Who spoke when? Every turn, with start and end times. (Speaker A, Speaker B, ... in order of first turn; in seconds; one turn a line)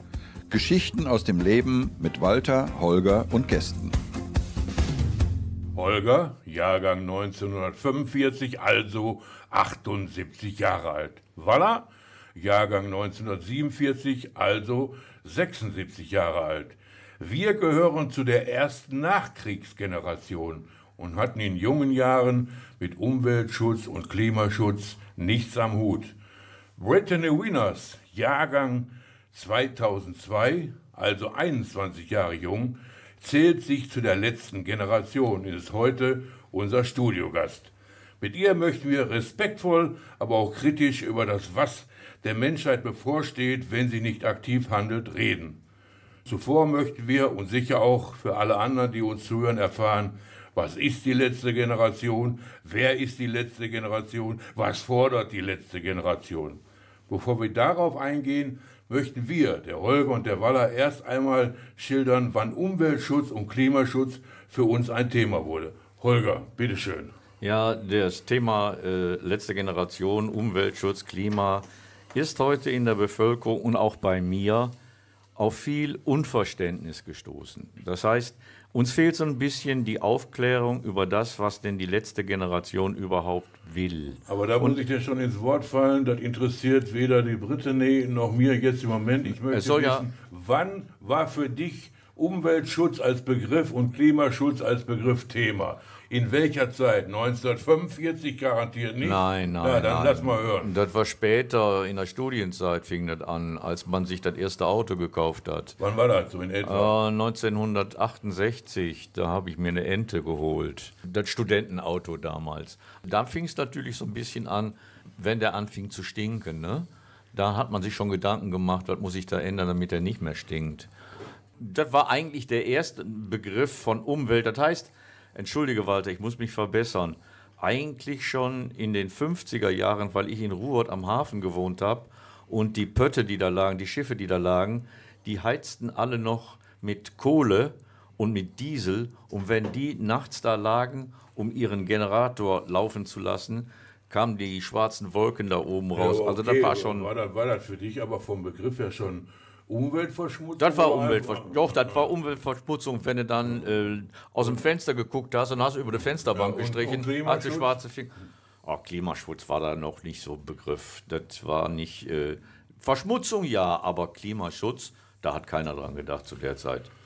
Speaker A: 0.5-4.0
Speaker B: 5.7-26.1
Speaker B: 26.8-45.6
Speaker B: 46.2-67.2
Speaker C: 67.4-74.7
Speaker C: 75.3-84.8
Speaker B: 84.2-100.7
Speaker C: 89.5-90.0
Speaker C: 99.0-105.8
Speaker B: 105.8-106.9
Speaker C: 106.6-120.9
Speaker C: 121.6-147.1
Speaker B: 145.9-152.1
Speaker C: 150.6-166.9
Speaker B: 156.3-157.7